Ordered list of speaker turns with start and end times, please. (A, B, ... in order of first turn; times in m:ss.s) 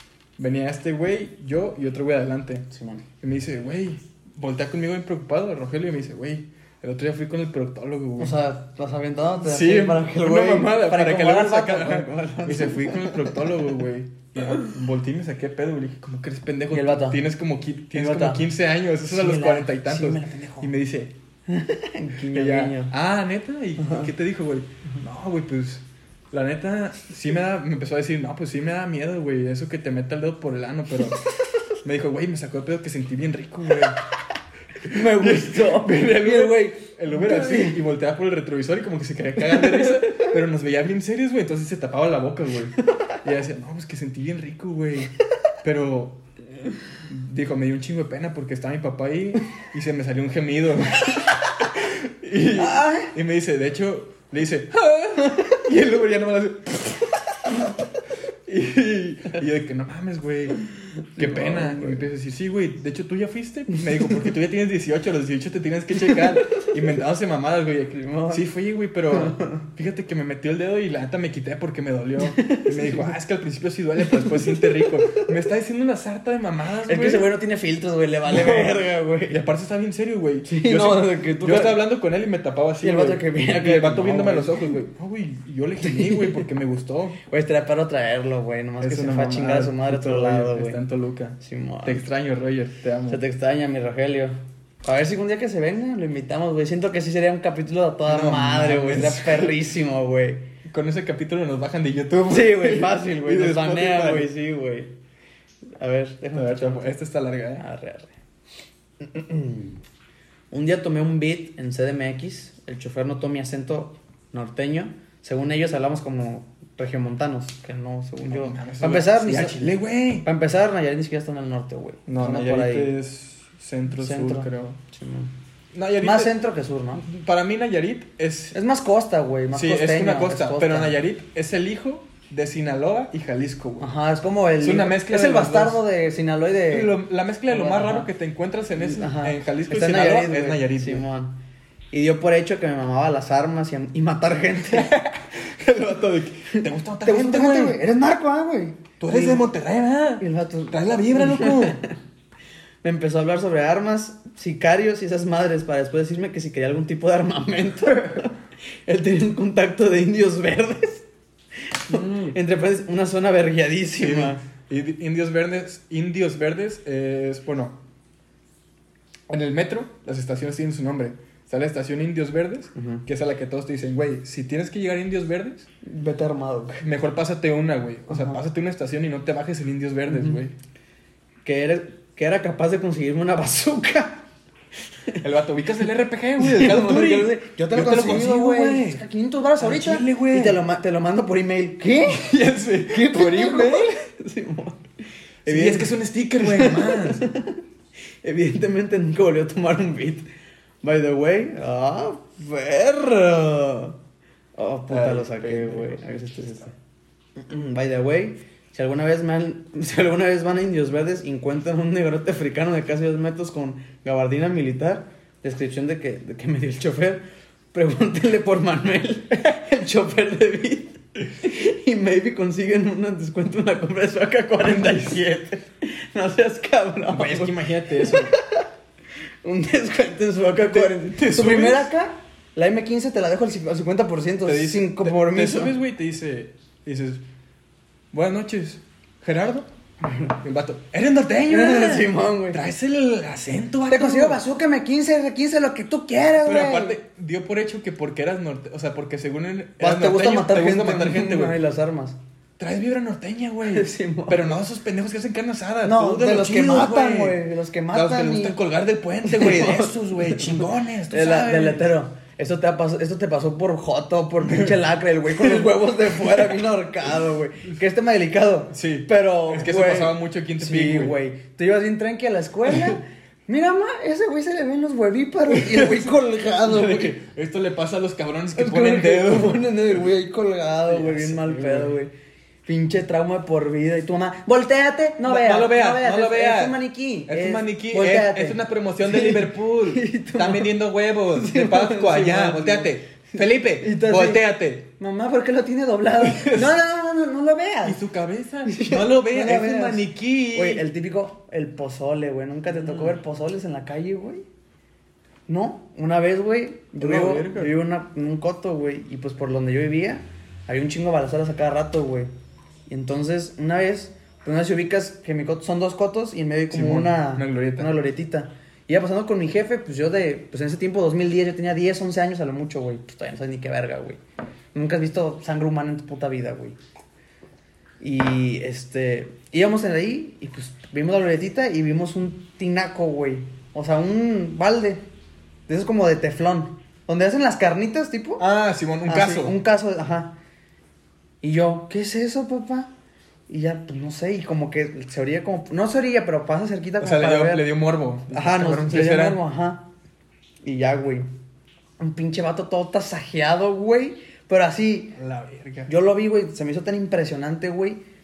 0:00.4-0:02.7 A
0:02.7-0:03.0 B
0:03.2-0:08.4 A
0:08.2-0:13.5 B
0:09.4-0:21.1 A
0:14.4-0:14.7 B
0:16.7-0:17.2 B
0:17.9-0:18.5 B
0:19.0-0:20.7 B
0:21.5-0:22.9 B
0:22.3-0:31.2 A
0:23.8-0:24.1 B
0:31.8-0:34.0 A
0:34.8-0:37.8 B
0:34.8-0:45.1 A
0:39.4-0:40.3 B
0:45.6-0:46.2 A
0:47.0-0:57.1 A
0:52.5-0:53.1 B
0:55.2-0:55.6 B
0:58.4-1:00.6 A
1:01.1-1:02.1 B
1:01.2-1:17.3 A
1:06.0-1:06.7 B
1:07.9-1:08.5 B
1:09.1-1:09.6 B
1:12.2-1:13.1 B
1:14.0-1:15.3 B
1:16.8-1:19.4 B
1:18.2-1:27.2 A
1:20.4-1:21.9 B
1:22.8-1:24.7 B
1:25.8-1:26.5 B
1:27.3-1:30.8 B
1:28.8-1:33.2 A
1:31.4-1:32.0 B
1:33.1-1:40.4 B
1:38.0-1:39.6 A
1:40.7-1:44.3 A
1:42.3-1:44.9 B
1:45.8-1:46.9 B
1:46.3-1:47.6 A
1:47.6-1:48.1 B
1:49.0-1:49.8 B
1:50.5-2:02.9 B
1:58.3-2:00.2 A
2:02.1-2:04.8 A
2:04.0-2:05.3 B
2:05.7-2:06.3 A
2:06.0-2:07.0 B
2:07.0-2:08.5 A
2:08.5-2:11.0 B
2:09.5-2:13.9 A
2:13.8-2:18.1 B
2:14.6-2:15.8 A
2:16.7-2:21.0 A
2:18.8-2:21.4 B
2:21.9-2:24.9 B
2:24.7-2:27.8 A
2:26.5-2:29.5 B
2:29.0-2:31.8 A
2:30.2-2:32.0 B
2:32.8-2:41.0 B
2:41.7-2:44.4 B
2:41.9-2:42.3 A
2:44.0-2:47.8 A
2:49.3-2:55.7 A
2:52.8-2:53.0 B
2:55.8-2:56.8 B
2:56.8-3:00.5 A
2:58.1-2:58.4 B
3:00.1-3:00.4 B
3:01.4-3:04.2 B
3:05.2-3:09.0 A
3:06.4-3:12.3 B
3:09.6-3:10.6 A
3:12.0-3:14.0 A
3:12.8-3:14.9 B
3:15.4-3:17.6 B
3:15.4-3:17.2 A
3:18.2-3:20.3 B
3:20.8-3:24.0 B
3:24.6-3:26.7 B
3:24.9-3:26.0 A
3:27.4-3:37.2 B
3:37.7-3:48.7 B
3:44.6-3:45.1 A
3:47.1-3:48.3 A
3:49.4-3:55.7 B
3:50.6-3:51.9 A
3:54.4-3:57.2 A
3:58.1-3:59.7 A
4:00.1-4:00.3 B
4:00.4-4:04.4 A
4:01.4-4:02.6 B
4:03.9-4:07.0 B
4:06.4-4:11.6 A
4:09.8-4:12.2 B
4:12.6-4:21.9 A
4:13.6-4:14.6 B
4:15.8-4:18.6 B
4:19.2-4:37.2 B
4:24.4-4:24.8 A
4:25.4-4:25.7 A
4:28.7-4:31.2 A
4:35.5-4:36.1 A
4:36.6-4:39.7 A
4:38.5-4:42.1 B
4:40.9-4:41.9 A
4:42.6-4:58.1 B
4:45.2-4:54.8 A
4:56.2-4:56.7 A
4:57.8-5:00.8 A
4:58.6-5:04.4 B
5:02.7-5:03.2 A
5:05.5-5:12.3 B
5:07.0-5:07.7 A
5:12.9-5:24.2 B
5:16.7-5:17.9 A
5:24.7-5:26.8 B
5:28.0-5:35.0 B
5:35.7-5:38.4 B
5:38.4-5:39.6 A
5:39.0-5:40.4 B
5:41.4-5:42.9 B
5:43.5-5:47.7 B
5:47.0-5:49.4 A
5:48.3-5:49.9 B
5:50.6-5:51.3 B
5:52.0-5:55.2 B
5:55.2-5:55.9 A
5:55.9-5:58.0 B